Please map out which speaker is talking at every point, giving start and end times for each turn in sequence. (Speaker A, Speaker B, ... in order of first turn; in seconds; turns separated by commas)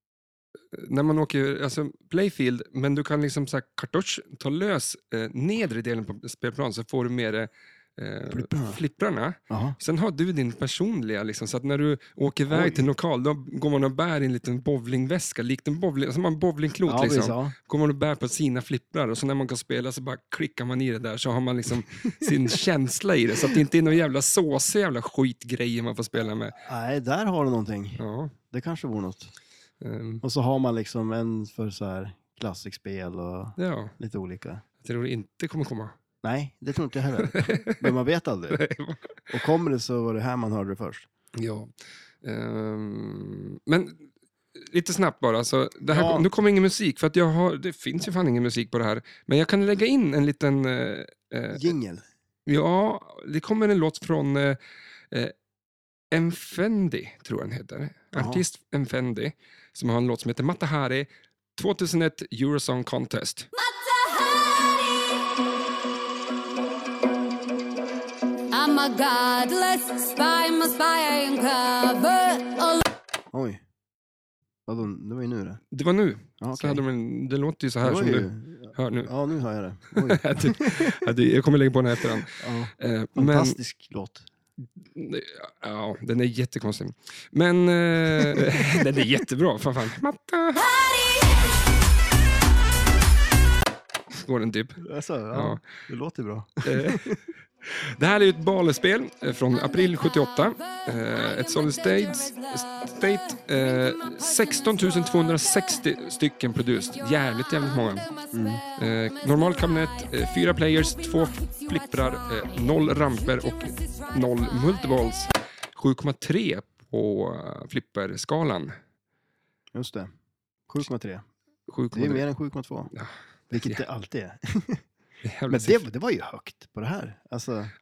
Speaker A: 0.7-26.6, Speaker B: 8.3-8.8, Speaker B: 9.5-9.8, Speaker B: 12.5-12.8, Speaker B: 16.9-17.5, Speaker B: 26.6-29.3, Speaker A: 28.0-28.3, Speaker A: 29.8-30.2, Speaker B: 30.2-34.6, Speaker A: 33.6-33.9, Speaker A: 34.8-36.0, Speaker B: 36.2-38.6, Speaker A: 37.2-37.9, Speaker A: 38.5-39.1, Speaker B: 39.3-41.1, Speaker A: 41.4-51.7, Speaker B: 45.9-46.3, Speaker B: 51.5-52.0, Speaker A: 52.5-54.6, Speaker A: 56.1-63.5, Speaker B: 58.1-58.4, Speaker C: 63.6-65.0, Speaker C: 68.5-72.8, Speaker B: 73.3-73.6, Speaker B: 74.7-75.6, Speaker A: 75.7-79.1, Speaker B: 76.4-76.8, Speaker B: 77.8-81.0, Speaker A: 79.9-83.6, Speaker B: 82.4-84.3, Speaker A: 84.8-90.8, Speaker B: 88.2-88.6, Speaker A: 94.1-95.6, Speaker B: 94.8-97.2, Speaker A: 96.6-108.1, Speaker B: 108.3-108.6, Speaker A: 108.8-118.7, Speaker C: 113.8-114.1, Speaker B: 119.7-120.1, Speaker B: 120.7-121.2, Speaker A: 121.7-122.2, Speaker B: 121.9-122.9, Speaker A: 122.9-123.8, Speaker B: 123.5-124.8, Speaker A: 125.2-125.8, Speaker B: 125.5-127.7